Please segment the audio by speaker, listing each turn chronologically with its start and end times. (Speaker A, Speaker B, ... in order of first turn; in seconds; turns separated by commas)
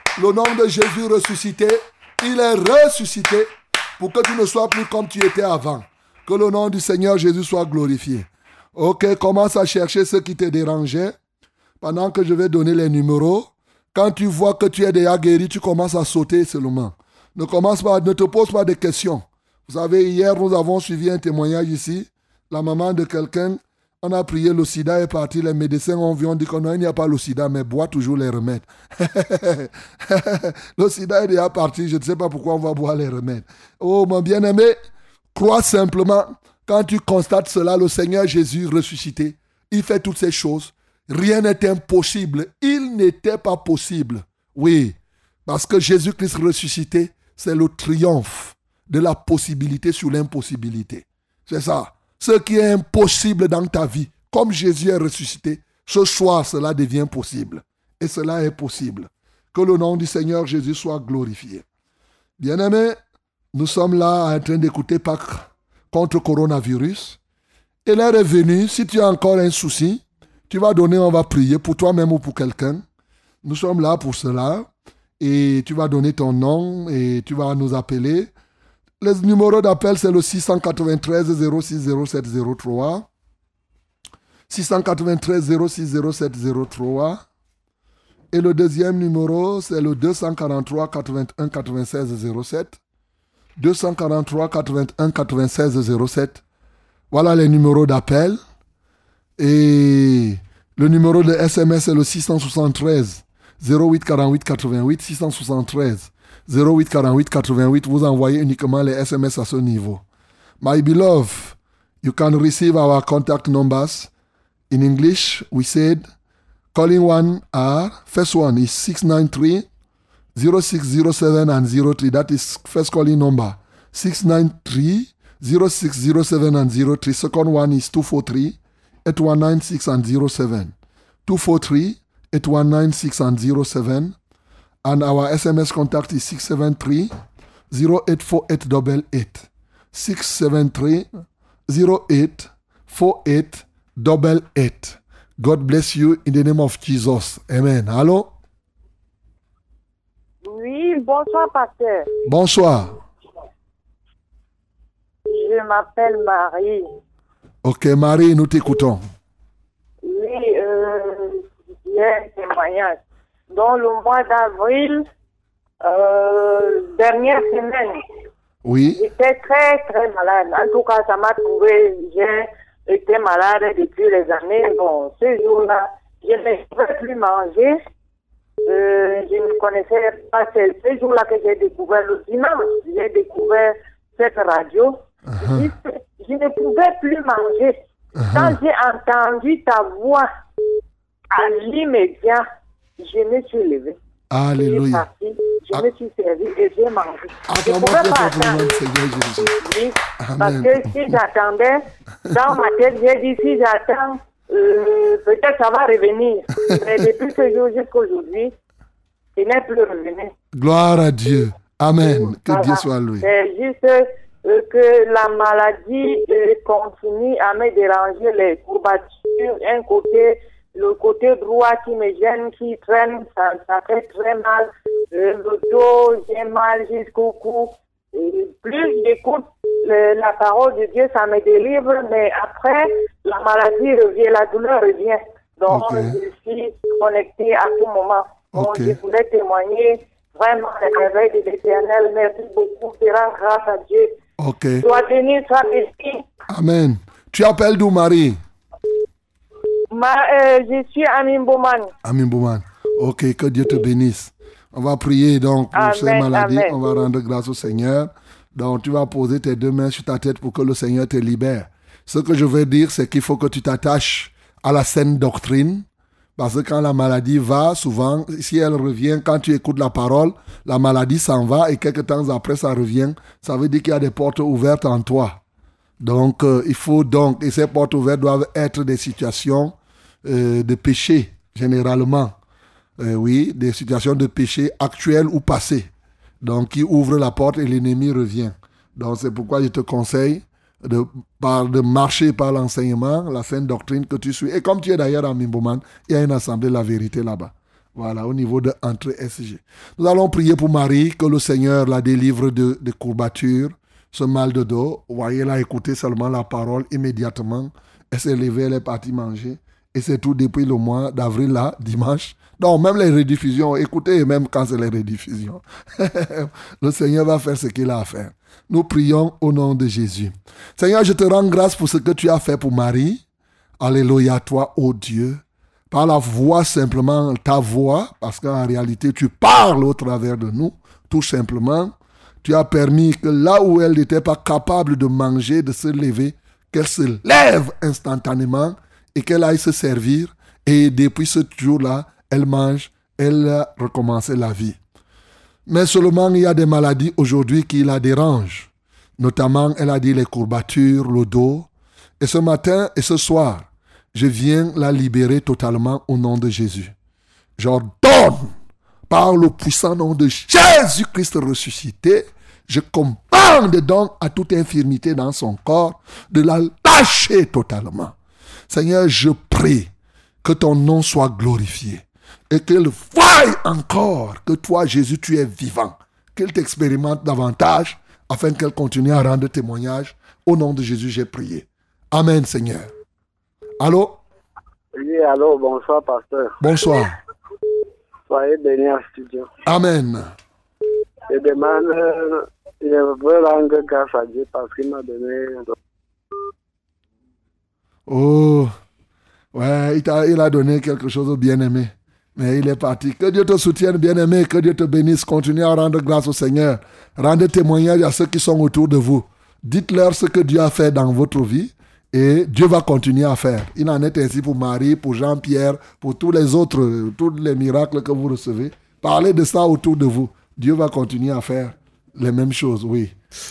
Speaker A: 0.1-11.2, Speaker A: 11.8-34.8, Speaker A: 35.3-61.6, Speaker A: 62.4-63.0, Speaker A: 63.5-67.2, Speaker A: 67.8-72.8, Speaker A: 73.4-74.7, Speaker A: 75.2-78.3, Speaker A: 79.0-83.1, Speaker A: 84.5-87.2, Speaker A: 88.3-92.8, Speaker A: 93.6-96.4, Speaker A: 97.1-98.4, Speaker A: 99.4-110.0, Speaker A: 110.6-114.1, Speaker A: 114.7-116.1, Speaker A: 116.7-119.7, Speaker A: 120.3-130.7, Speaker A: 131.2-134.2, Speaker A: 134.8-137.1, Speaker A: 137.7-141.1, Speaker A: 141.7-148.3, Speaker B: 150.4-152.1, Speaker A: 152.2-153.0, Speaker B: 155.3-156.9, Speaker A: 157.6-159.0, Speaker B: 160.0-163.0, Speaker B: 163.5-165.0, Speaker B: 165.8-168.0, Speaker A: 168.6-169.0, Speaker B: 168.9-177.8, Speaker B: 178.7-187.8, Speaker A: 185.3-185.7, Speaker A: 188.2-188.6, Speaker B: 188.3-190.3, Speaker B: 191.3-192.4, Speaker B: 193.0-194.0, Speaker A: 194.3-195.0, Speaker B: 194.6-198.7, Speaker A: 197.5-199.5, Speaker B: 199.5-208.5, Speaker A: 200.2-201.1, Speaker B: 209.3-210.3, Speaker A: 210.5-213.2, Speaker B: 212.4-244.1, Speaker A: 235.7-236.2, Speaker A: 238.5-238.9, Speaker A: 244.4-244.8, Speaker B: 244.8-246.2, Speaker A: 246.5-248.4, Speaker B: 249.9-251.9, Speaker A: 252.0-275.4, Speaker B: 255.7-257.0, Speaker A: 276.0-282.3, Speaker A: 283.0-285.9, Speaker A: 286.4-323.2, Speaker A: 323.8-344.8, Speaker A: 345.7-351.7, Speaker A: 352.2-356.9, Speaker A: 357.6-358.5, Speaker A: 359.1-368.1, Speaker A: 368.7-369.9, Speaker A: 370.4-382.9, Speaker A: 383.8-384.2, Speaker C: 384.9-386.5, Speaker A: 386.6-387.2, Speaker C: 388.3-389.5, Speaker A: 389.6-390.3, Speaker C: 391.3-395.7, Speaker A: 398.1-398.7, Speaker A: 399.5-423.1